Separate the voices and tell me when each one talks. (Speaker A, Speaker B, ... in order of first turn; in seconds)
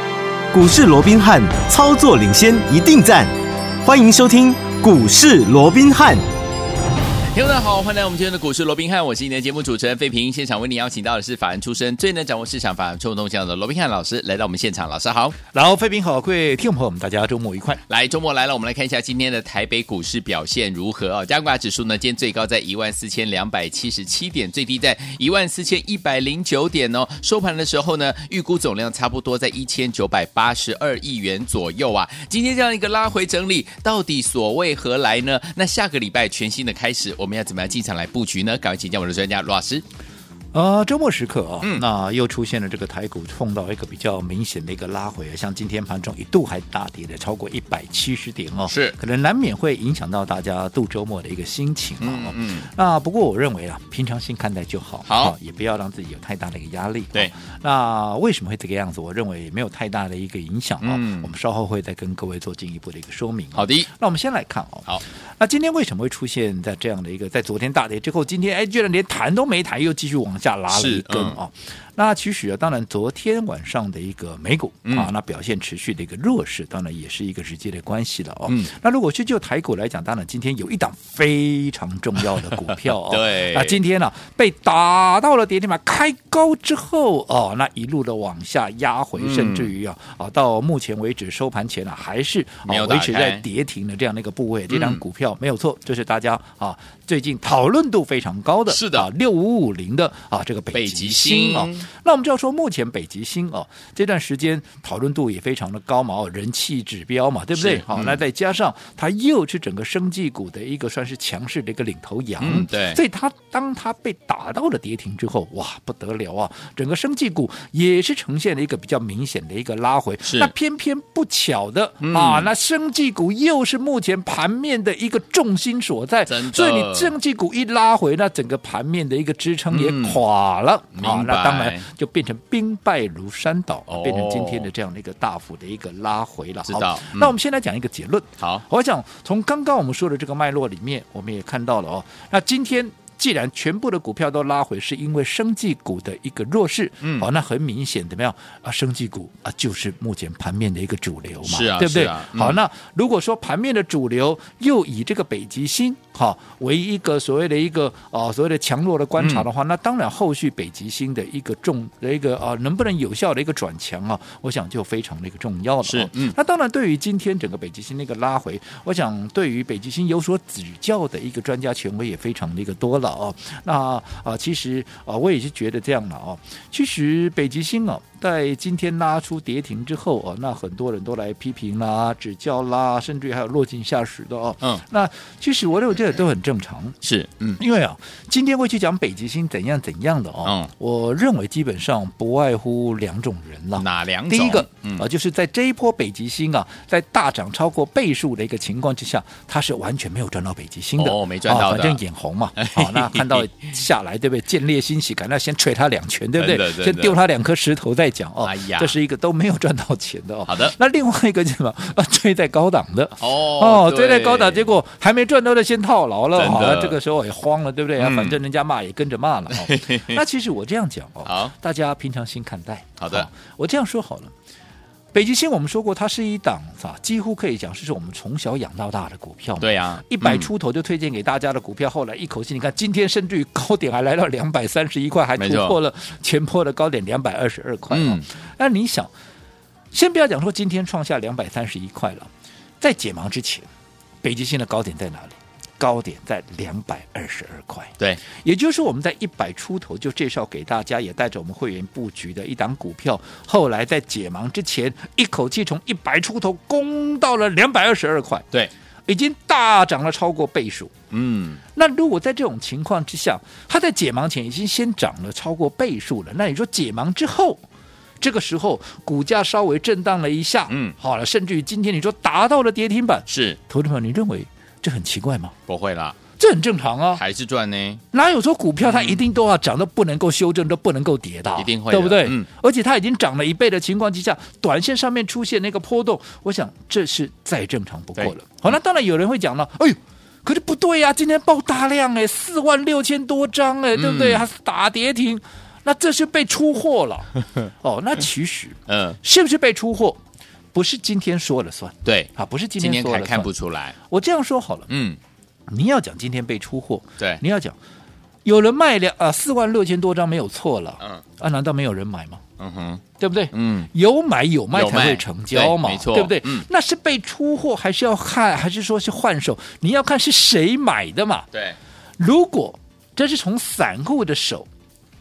Speaker A: 0.5-3.3, 3.8-6.2
Speaker B: 7.3-15.4, 17.9-39.8, 48.7-49.0, 52.0-52.7, 55.1-55.3, 60.8-61.3, 63.5-63.9, 70.7-71.4, 74.8-75.1, 82.8-83.8, 89.2-89.7, 92.7-93.4, 94.7-95.0, 98.7-99.1, 100.7-101.9, 107.5-108.2, 112.4-113.0, 120.2-120.5, 122.0-122.5, 126.3-127.1, 129.7-130.2, 130.9-131.8, 133.9-134.7, 136.7-137.3, 147.0-147.3, 151.4-152.6, 159.2-159.4, 165.8-166.3, 187.0-187.6, 190.4-190.7, 193.8-195.0, 201.0-202.0, 202.6-203.5, 206.4-207.2, 208.4-208.9, 210.5-210.7, 213.2-214.7, 216.3-217.0, 218.0-218.4, 219.5-220.2, 221.2-221.5, 223.0-223.3, 229.6-230.5, 235.4-235.8, 237.9-238.2, 261.1-261.6, 270.7-270.9, 273.3-273.6, 275.7-276.2, 277.1-278.0, 278.8-279.2, 281.6-282.5, 293.9-294.5, 298.9-299.2, 302.0-303.9, 304.9-305.2, 312.6-313.9, 314.7-316.6
Speaker C: 15.5-17.8, 40.5-186.9, 187.6-224.3, 225.1-239.1, 239.9-242.3, 242.8-243.7, 244.2-258.5, 259.1-260.9, 261.7-267.6, 268.2-275.5, 276.4-277.2, 278.1-300.2, 300.7-303.5, 304.1-304.9, 305.7-307.8, 308.4-312.4, 313.2-321.5, 322.2-324.7